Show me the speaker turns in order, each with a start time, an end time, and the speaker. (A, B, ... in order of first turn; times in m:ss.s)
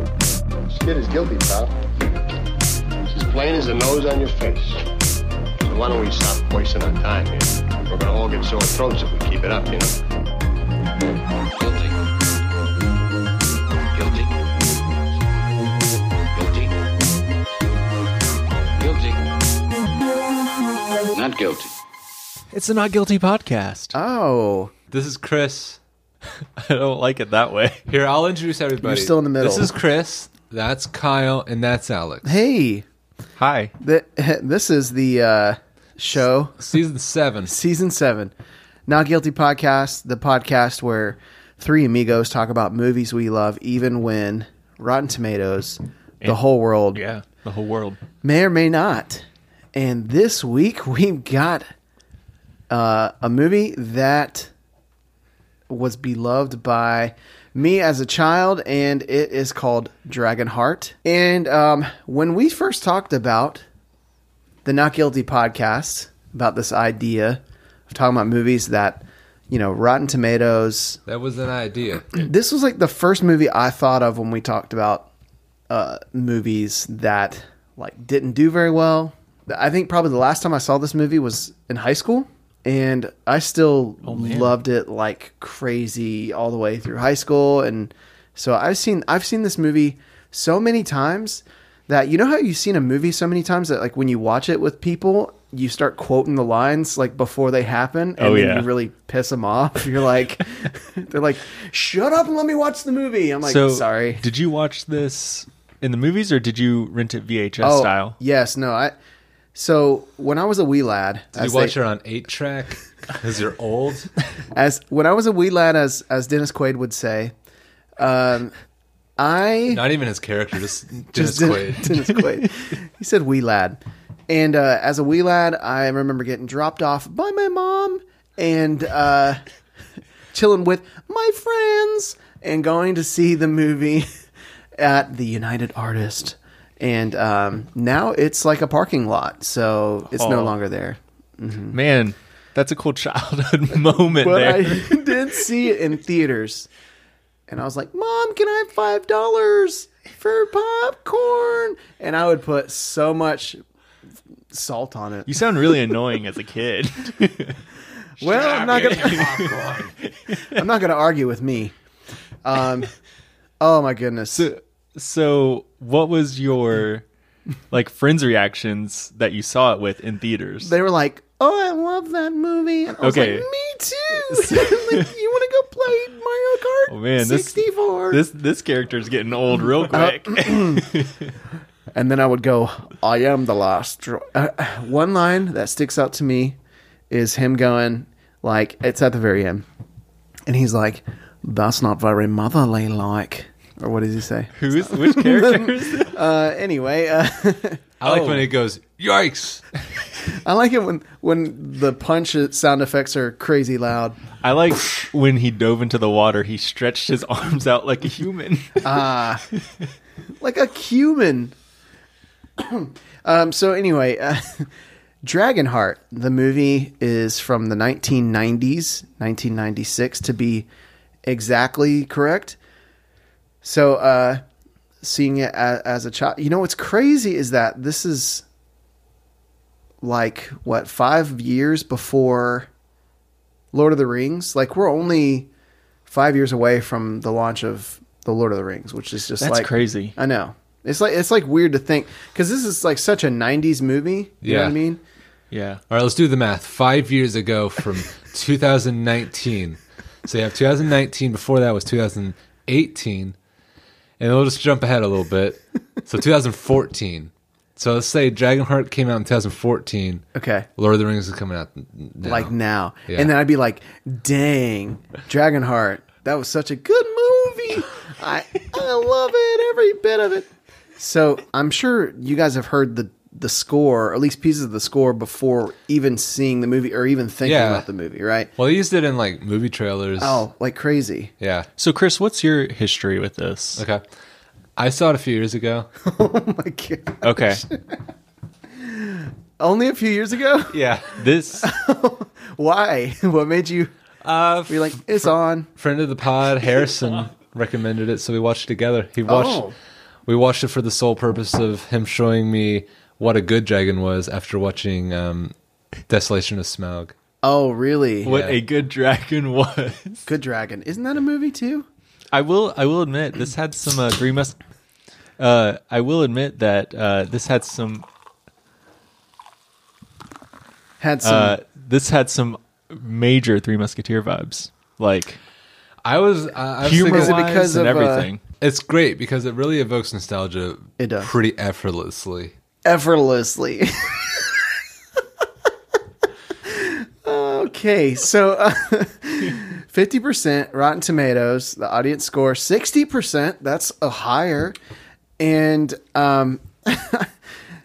0:00.7-0:01.8 A
0:03.1-0:04.9 A
0:05.6-0:10.0 A
0:11.6-0:12.0 B
0:14.0-0:14.3 B
0:16.3-0:16.7 B
0:18.8-0:19.2 B
0:21.1-0:21.7 B
0:22.5-0:24.0 C
0:23.9-0:24.7 D
0:24.9-0:25.8 E
0:26.6-0:27.9 C
0:27.9-0:32.3 E
0:28.8-0:29.7 D
0:32.2-0:32.8 D
0:33.4-0:33.7 C
0:33.8-0:36.6 D
0:36.6-0:37.5 E
0:37.5-0:38.3 D
0:38.9-0:47.0 D
0:46.9-0:48.0 C
0:48.2-0:51.7 D
0:52.7-0:54.5 D
0:55.7-1:03.6 D
1:04.6-1:11.0 D
1:11.1-1:12.2 E
1:12.1-1:15.1 D
1:15.7-1:44.2 D
1:24.0-1:24.6 C
1:38.2-1:38.7 C
1:43.4-1:48.2 C
1:47.6-1:48.9 D
1:49.6-1:51.8 D
1:51.4-1:54.1 E
1:54.5-1:57.3 D
1:58.0-1:58.6 D
1:59.2-1:59.8 D
1:59.7-2:02.0 E
2:01.2-2:09.4 D
2:10.3-2:14.1 D
2:14.8-2:21.8 D
2:20.1-2:20.5 C
2:21.7-2:25.4 C
2:24.2-2:26.7 D
2:27.5-2:33.6 D
2:34.5-2:35.3 D
2:35.3-2:37.6 C
2:38.2-2:39.7 D
2:38.3-2:39.9 E
2:38.6-2:40.6 C
2:40.5-2:41.7 D
2:42.4-2:42.9 D
2:43.6-2:44.5 D
2:44.3-2:47.0 C
2:47.7-2:50.7 C
2:50.6-2:58.2 D
2:53.0-2:53.5 C
2:54.2-2:55.1 C
2:56.9-2:57.6 C
2:58.1-3:01.3 C
2:59.9-3:00.9 D
3:01.9-3:06.6 D
3:07.1-3:09.6 D
3:10.5-3:17.8 D
3:14.6-3:16.2 C
3:18.0-3:19.6 E
3:18.0-3:18.5 C
3:20.3-3:24.2 D
3:24.4-3:28.9 C
3:28.8-3:29.4 D
3:30.4-3:31.5 D
3:32.6-3:34.7 D
3:35.2-3:40.7 D
3:41.3-3:42.6 D
3:43.6-3:44.4 D
3:45.0-3:48.4 D
3:50.0-3:52.7 D
3:53.7-3:55.5 D
3:56.1-4:05.0 D
3:59.4-4:00.2 C
4:04.4-4:04.8 E
4:05.5-4:05.8 C
4:05.9-4:13.4 E
4:14.2-4:20.3 E
4:20.4-4:20.7 D
4:20.8-4:22.5 E
4:22.2-4:30.5 D
4:31.0-4:38.5 D
4:37.4-4:37.9 E
4:38.6-4:40.4 E
4:40.2-4:41.3 D
4:41.4-4:41.7 E
4:41.8-4:43.8 C
4:43.8-4:44.0 E
4:44.8-4:45.9 E
4:46.0-4:48.0 D
4:47.2-4:47.6 C
4:48.8-4:51.0 D
4:50.7-4:51.1 E
4:51.2-4:51.7 C
4:51.6-4:53.9 D
4:54.2-4:59.6 E
4:54.7-4:55.7 D
4:59.3-4:59.8 D
5:00.3-5:05.5 E
5:06.1-5:07.1 E
5:07.4-5:08.4 D
5:08.2-5:10.3 C
5:08.2-5:08.6 E
5:10.3-5:11.9 D
5:12.3-5:14.6 C
5:15.4-5:18.1 C
5:21.0-5:21.6 D
5:21.2-5:25.4 C
5:26.0-5:27.4 E
5:26.8-5:28.4 C
5:26.9-5:28.3 D
5:28.6-5:32.5 E
5:31.0-5:31.3 D
5:32.8-5:34.7 D
5:36.6-5:44.8 D
5:45.4-5:47.3 D